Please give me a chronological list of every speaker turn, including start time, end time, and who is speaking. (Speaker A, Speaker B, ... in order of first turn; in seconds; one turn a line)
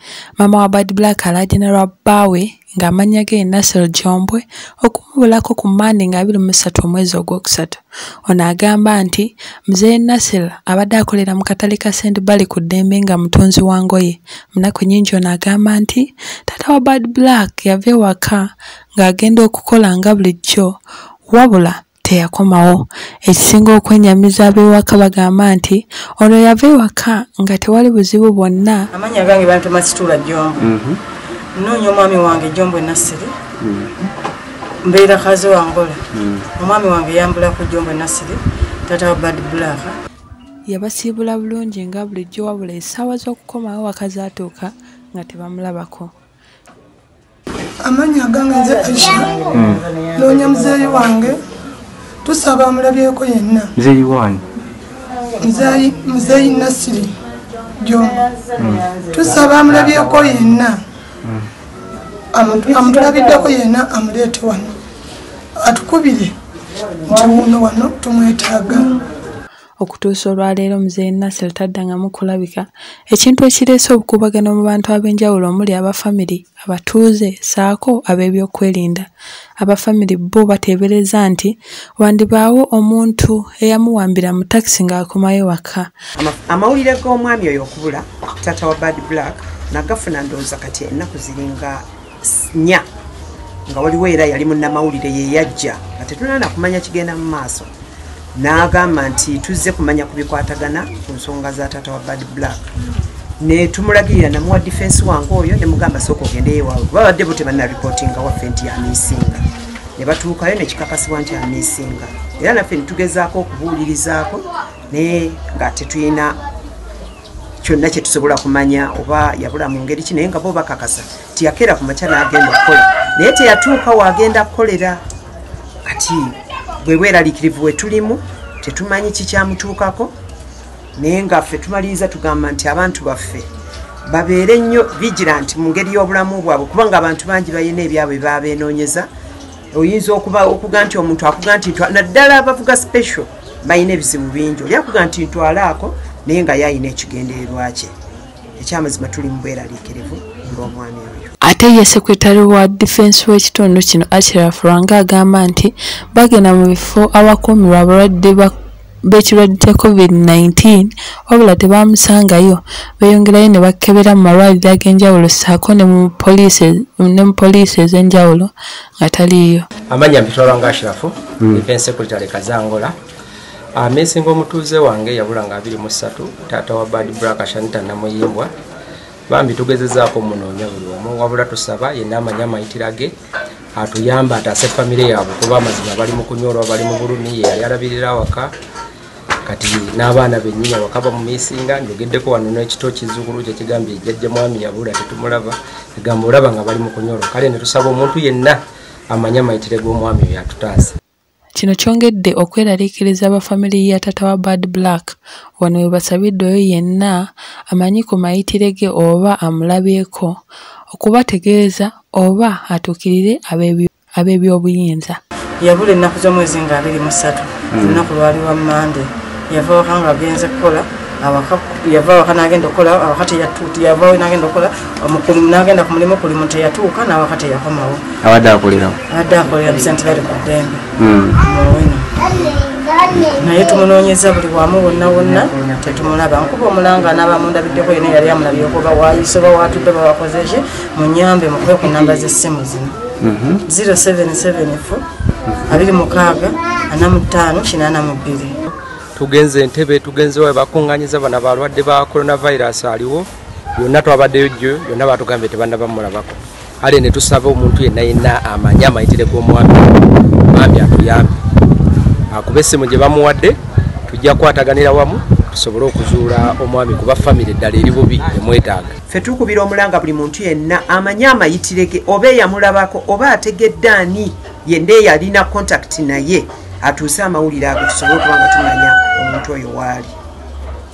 Speaker A: 0.4-20.8
Speaker A: 21.3-28.9
Speaker B: 28.9-30.7
Speaker C: 30.6-31.0
Speaker B: 31.6-33.3
Speaker C: 33.6-33.9
Speaker B: 34.8-36.0
Speaker C: 36.1-36.4
Speaker B: 36.6-40.0
Speaker A: 40.7-46.1
Speaker D: 47.8-49.4
Speaker B: 48.9-51.0
Speaker C: 49.5-49.8
Speaker D: 50.1-51.4
Speaker D: 52.2-53.7
Speaker C: 53.8-54.4
Speaker D: 55.4-57.1
Speaker D: 57.8-58.2
Speaker C: 58.6-58.8
Speaker D: 59.1-60.8
Speaker D: 62.3-64.7
Speaker D: 65.6-66.3
Speaker D: 67.1-68.8
Speaker A: 69.8-79.1
Speaker A: 79.6-85.9
Speaker E: 86.2-92.8
Speaker E: 93.7-97.7
Speaker E: 98.3-102.6
Speaker E: 103.4-109.4
Speaker E: 110.0-116.4
Speaker E: 117.6-125.0
Speaker E: 125.8-130.1
Speaker E: 131.0-133.5
Speaker E: 134.1-139.1
Speaker E: 139.7-147.9
Speaker E: 148.6-151.3
Speaker A: 151.4-158.5
Speaker A: 159.0-169.7
Speaker F: 169.9-172.9
Speaker C: 171.4-171.6
Speaker F: 173.8-178.5
Speaker F: 179.3-183.1
Speaker F: 183.8-188.5
Speaker F: 189.4-198.6
Speaker F: 199.1-200.9
Speaker A: 201.5-210.3
Speaker A: 210.9-215.2
Speaker B: 215.6-228.0
Speaker C: 217.7-218.0
Speaker C: 228.2-229.0
Speaker B: 229.1-230.9
Speaker C: 231.0-231.4
Speaker B: 231.4-232.1
Speaker B: 233.2-242.9
Speaker C: 243.2-243.6
Speaker B: 243.7-245.0
Speaker B: 245.7-248.6
Speaker F: 248.7-261.4
Speaker F: 262.3-263.6
Speaker F: 264.1-269.0
Speaker E: 269.1-280.1